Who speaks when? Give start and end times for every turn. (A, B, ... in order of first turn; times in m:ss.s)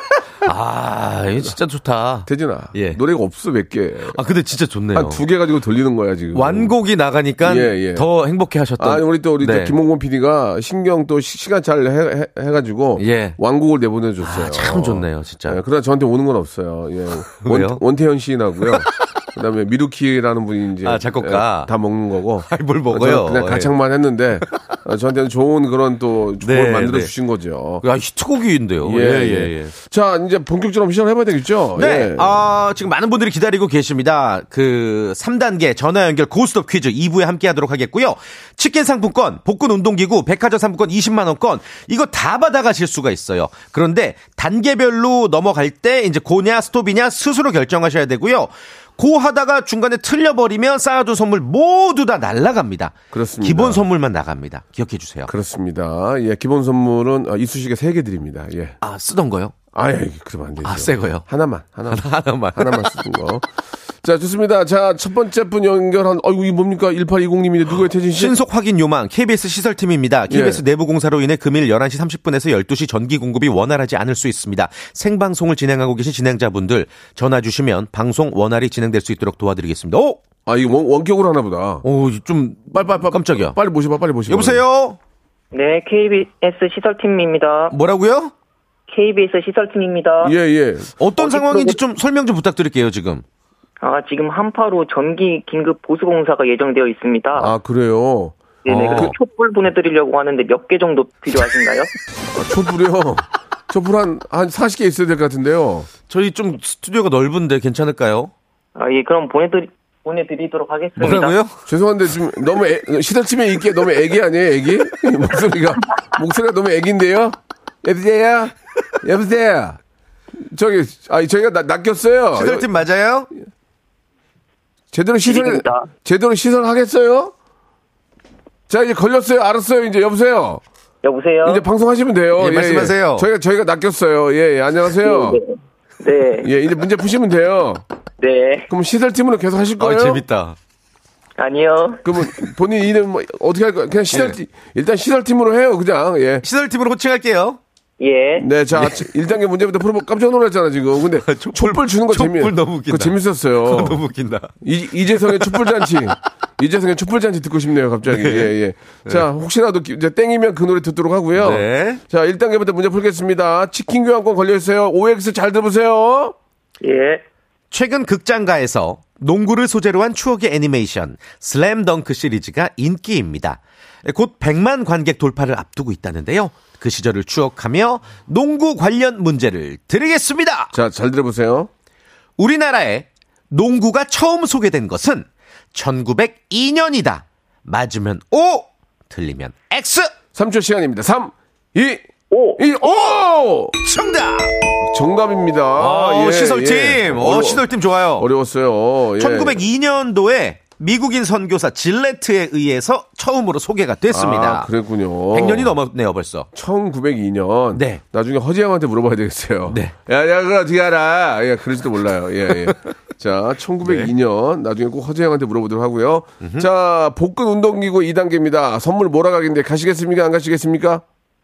0:00.4-0:03.0 A
0:02.3-0:04.2 B
0:04.1-0:05.2 A
0:04.9-0:06.7 B
0:06.3-0:09.8 A
0:07.4-0:08.1 B
0:08.8-0:27.8 B
0:13.0-0:13.4 A
0:14.2-0:15.6 A
0:17.4-0:17.8 A
0:20.8-0:21.7 A
0:22.5-0:23.7 A
0:26.4-0:27.1 A
0:27.8-0:29.7 A
0:28.8-0:32.3 B
0:31.8-0:55.3 A
0:53.1-0:53.8 B
0:55.3-0:58.8 B
0:58.8-0:59.5 A
0:59.7-1:03.5 B
1:00.6-1:01.3 A
1:01.9-1:02.9 A
1:04.0-1:08.4 B
1:08.1-1:20.2 A
1:10.3-1:10.6 B
1:20.5-1:21.8 B
1:21.8-1:23.6 A
1:22.7-1:24.6 B
1:24.3-1:25.0 A
1:25.5-1:27.8 C
1:27.7-1:28.3 A
1:28.9-1:30.3 C
1:30.2-1:31.8 B
1:31.0-1:33.2 A
1:33.8-1:37.5 C
1:37.4-1:38.4 B
1:38.6-1:41.9 C
1:38.7-1:39.2 A
1:42.4-1:45.9 B
1:46.1-1:48.3 A
1:48.8-1:51.4 C
1:51.0-1:51.6 A
1:51.7-1:59.8 B
2:00.4-2:02.7 B
2:02.3-2:03.3 A
2:04.9-2:07.3 B
2:05.3-2:05.8 C
2:08.7-2:10.6 B
2:11.0-2:11.6 C
2:11.4-2:15.4 B
2:12.4-2:13.3 A
2:15.0-2:16.5 C
2:16.4-2:17.8 B
2:18.2-2:18.7 C
2:18.7-2:20.2 B
2:19.8-2:20.6 A
2:21.4-2:22.1 C
2:22.0-2:26.4 B
2:24.1-2:24.4 A
2:26.4-2:27.6 A
2:28.0-2:28.5 C
2:28.4-2:34.0 B
2:28.8-2:29.0 A
2:31.2-2:34.5 A
2:34.6-2:46.4 B
2:35.2-2:36.1 A
2:38.1-2:38.5 A
2:41.4-2:42.0 A
2:46.8-2:47.2 C
2:47.7-3:00.7 A
3:00.7-3:01.7 B
3:02.4-3:10.1 A
3:10.4-3:12.0 B
3:12.3-3:12.6 C
3:12.6-3:13.8 B
3:13.8-3:14.5 A
3:14.8-3:19.6 B
3:15.8-3:18.3 A
3:19.2-3:24.7 A
3:24.1-3:25.7 B
3:25.3-3:26.5 A
3:26.5-3:41.0 B
3:27.7-3:28.0 A
3:29.7-3:29.9 A
3:33.8-3:34.1 A
3:36.4-3:36.7 A